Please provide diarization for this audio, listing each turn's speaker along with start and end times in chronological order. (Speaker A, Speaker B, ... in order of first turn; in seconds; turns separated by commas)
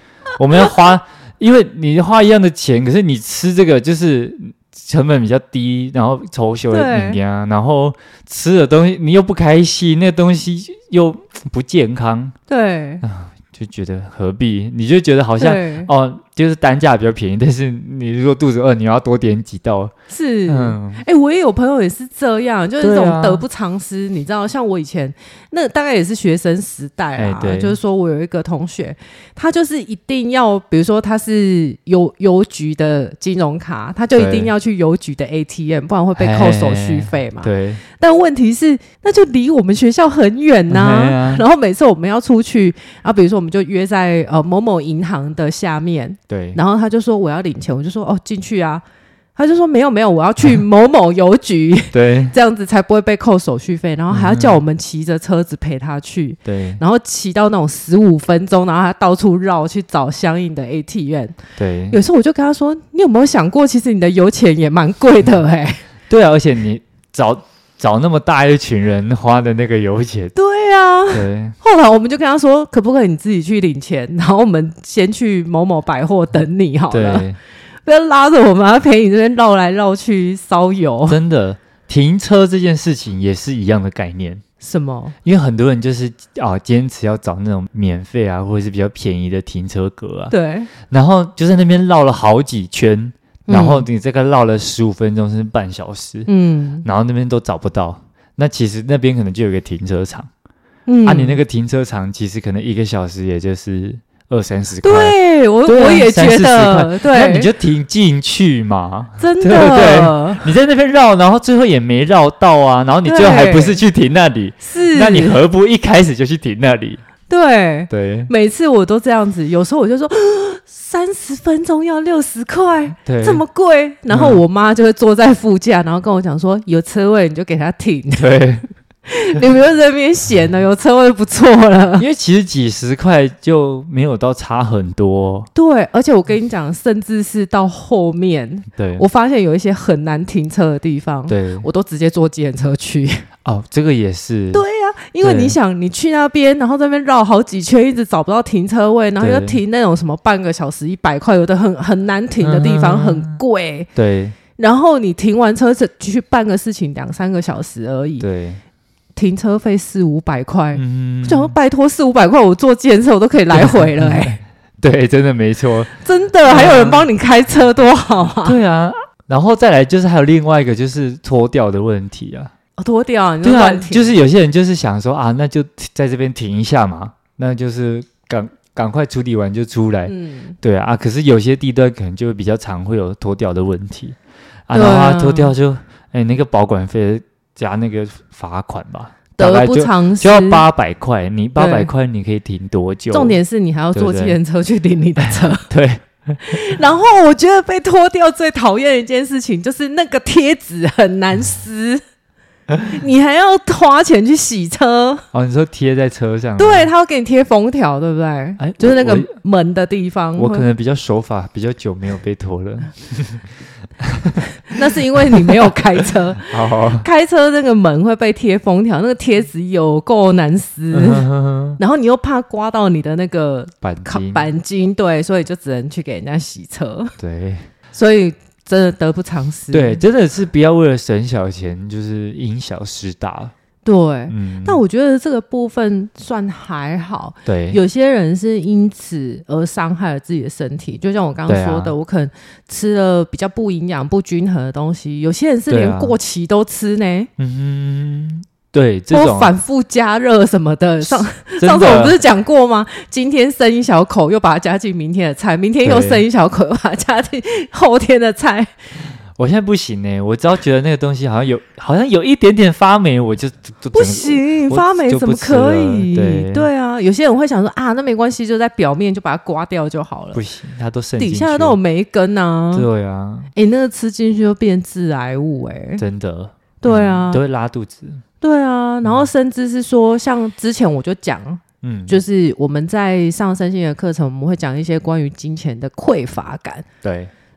Speaker A: 0.4-12.3, Speaker B: 6.7-7.2, Speaker B: 12.5-13.0, Speaker A: 13.0-19.9, Speaker B: 15.4-15.9, Speaker B: 20.1-48.8, Speaker A: 20.5-21.0, Speaker A: 22.8-23.4, Speaker A: 27.1-27.8, Speaker A: 34.1-34.5, Speaker A: 36.1-37.8, Speaker A: 40.7-41.4, Speaker A: 46.3-46.6, Speaker B: 49.4-61.4, Speaker A: 51.9-52.3, Speaker A: 54.1-54.6, Speaker A: 56.4-56.8, Speaker A: 61.6-62.0, Speaker B: 61.9-65.8, Speaker A: 66.1-70.3, Speaker B: 70.3-77.3, Speaker A: 71.1-71.5, Speaker A: 76.9-77.4, Speaker B: 77.8-81.2, Speaker A: 81.1-84.4, Speaker B: 84.6-85.1, Speaker A: 85.2-90.3, Speaker B: 90.3-90.7, Speaker A: 90.8-96.3, Speaker B: 93.5-93.8, Speaker B: 96.3-96.8, Speaker A: 96.8-100.3, Speaker B: 100.9-101.4, Speaker A: 101.0-117.0, Speaker B: 104.8-107.5, Speaker B: 109.2-110.5, Speaker B: 113.0-113.8, Speaker B: 114.6-115.4, Speaker B: 117.3-128.4, Speaker A: 117.9-118.3, Speaker A: 123.0-123.4, Speaker A: 124.1-124.4, Speaker A: 128.2-128.6, Speaker B: 129.1-132.1, Speaker A: 132.0-135.5, Speaker B: 135.5-143.2, Speaker A: 138.7-139.1, Speaker A: 141.3-141.7, Speaker A: 143.4-144.6, Speaker B: 144.5-153.9, Speaker A: 145.2-145.6, Speaker A: 149.2-149.6, Speaker A: 152.4-153.4, Speaker A: 153.9-154.4, Speaker B: 154.6-158.2, Speaker A: 158.2-158.6, Speaker B: 159.2-164.4, Speaker A: 160.7-161.5, Speaker A: 163.5-165.9, Speaker B: 166.0-168.6, Speaker A: 166.4-167.1, Speaker A: 168.4-172.5, Speaker B: 172.8-174.1, Speaker A: 173.4-184.2, Speaker B: 180.1-180.6, Speaker A: 184.7-193.4, Speaker B: 184.7-185.5, Speaker B: 189.4-190.6, Speaker B: 191.6-191.9, Speaker B: 193.1-195.7, Speaker A: 193.9-194.4, Speaker A: 195.2-196.7, Speaker B: 196.4-202.0, Speaker B: 202.8-205.2, Speaker A: 205.3-206.9, Speaker B: 206.6-210.7, Speaker A: 208.6-209.3, Speaker A: 210.4-213.4, Speaker A: 214.0-214.4, Speaker B: 214.6-227.1, Speaker A: 215.3-215.7, Speaker A: 216.4-217.1, Speaker A: 220.9-221.8, Speaker A: 223.8-224.4, Speaker A: 227.2-227.7, Speaker B: 227.9-230.0, Speaker A: 229.7-233.5, Speaker B: 233.8-247.3, Speaker A: 234.3-234.8, Speaker A: 237.4-237.8, Speaker A: 241.5-241.9, Speaker A: 245.7-246.1, Speaker A: 247.4-249.5, Speaker B: 249.1-258.7, Speaker A: 251.0-252.2, Speaker A: 255.8-256.2, Speaker A: 259.4-266.7, Speaker B: 263.9-270.4, Speaker A: 270.3-271.8, Speaker B: 271.2-272.9, Speaker A: 272.7-273.5, Speaker B: 273.5-276.0, Speaker A: 276.0-278.2, Speaker B: 276.8-277.4, Speaker B: 278.4-286.9, Speaker A: 281.8-282.2, Speaker A: 287.0-287.3